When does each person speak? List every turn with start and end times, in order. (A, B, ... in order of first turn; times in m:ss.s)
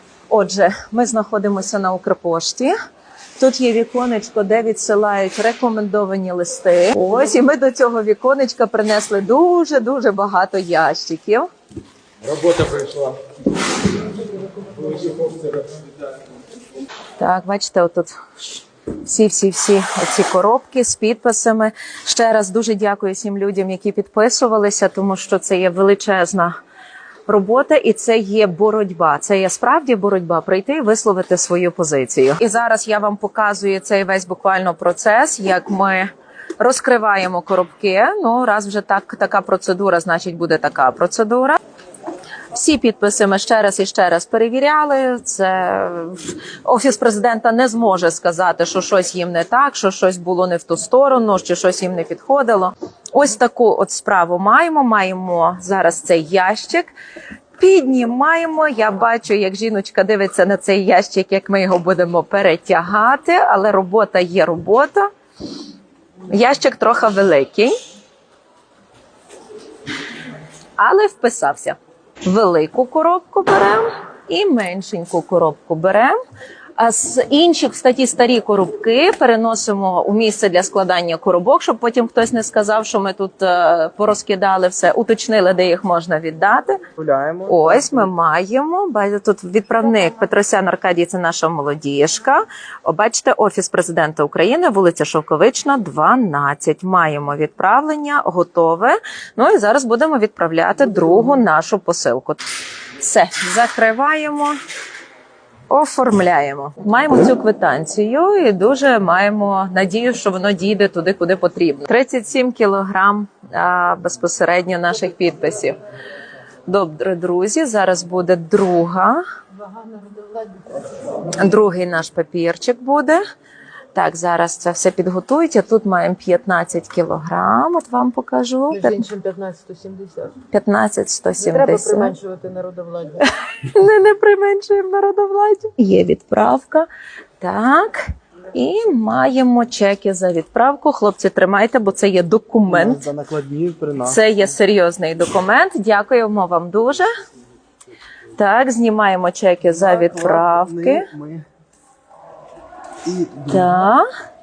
0:00.3-0:02.7 A
0:03.4-0:11.5 A
0:12.4-0:13.1 B
0:15.0-0:15.4 B
0:17.2-0:26.5 A
0:27.3-0:41.6 A
0:42.5-0:56.9 A
0:57.6-1:05.1 A
1:06.3-1:07.7 A
1:10.8-1:16.2 A
1:16.8-1:26.8 A
1:27.0-1:28.1 B
1:27.5-1:42.4 A
1:43.0-1:44.6 A
1:45.7-1:55.8 A
1:56.7-1:59.2 A
1:59.6-2:00.9 C
2:01.3-2:03.2 A
2:03.9-2:09.0 A
2:08.7-2:10.4 C
2:10.5-2:12.1 A
2:11.4-2:13.2 C
2:13.2-2:16.9 A
2:17.4-2:23.0 A
2:22.7-2:24.2 B
2:24.0-2:27.1 A
2:28.3-2:31.1 A
2:29.6-2:31.4 B
2:33.0-2:33.7 B
2:33.5-2:34.1 A